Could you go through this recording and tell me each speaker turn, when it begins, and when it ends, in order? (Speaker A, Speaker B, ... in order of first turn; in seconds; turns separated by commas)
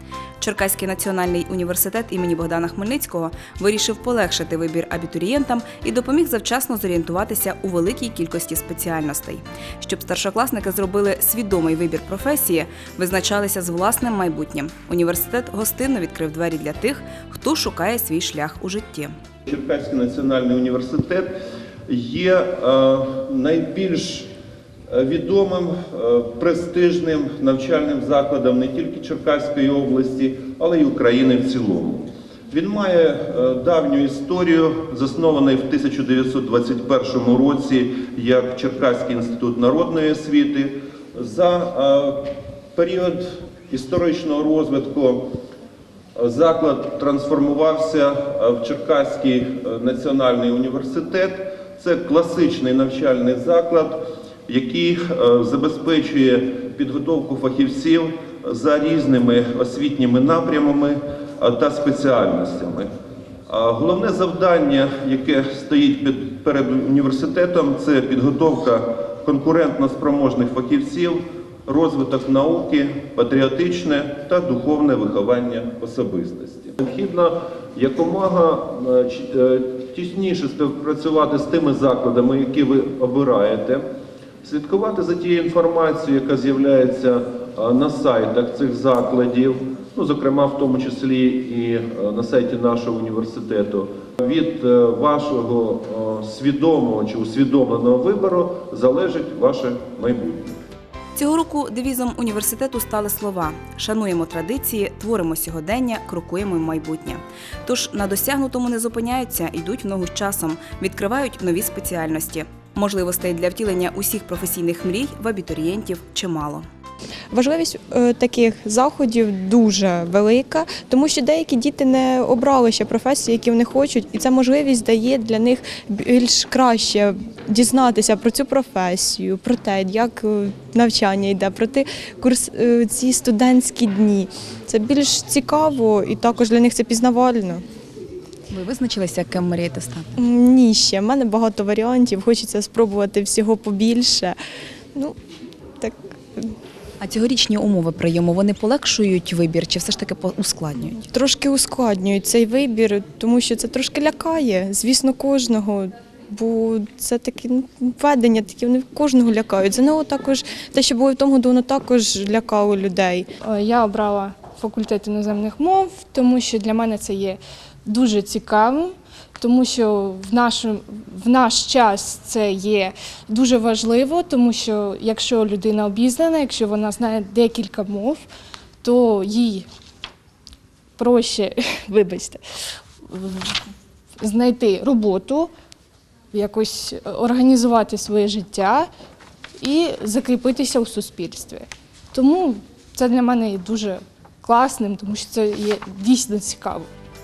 Speaker A: 0.4-19.1, Speaker B: 19.5-21.3, Speaker B: 21.9-24.3, Speaker B: 24.9-45.2, Speaker B: 46.1-62.9, Speaker B: 63.5-83.8, Speaker B: 84.4-100.6, Speaker A: 101.2-116.7, Speaker C: 117.3-137.6, Speaker D: 138.5-140.1, Speaker C: 140.2-144.4, Speaker C: 145.8-146.5, Speaker D: 147.0-151.0, Speaker C: 151.0-163.3, Speaker E: 163.4-178.2, Speaker E: 178.8-179.7, Speaker E: 181.0-182.4, Speaker E: 183.1-183.6, Speaker E: 184.2-185.5, Speaker E: 186.3-188.9, Speaker E: 189.6-196.9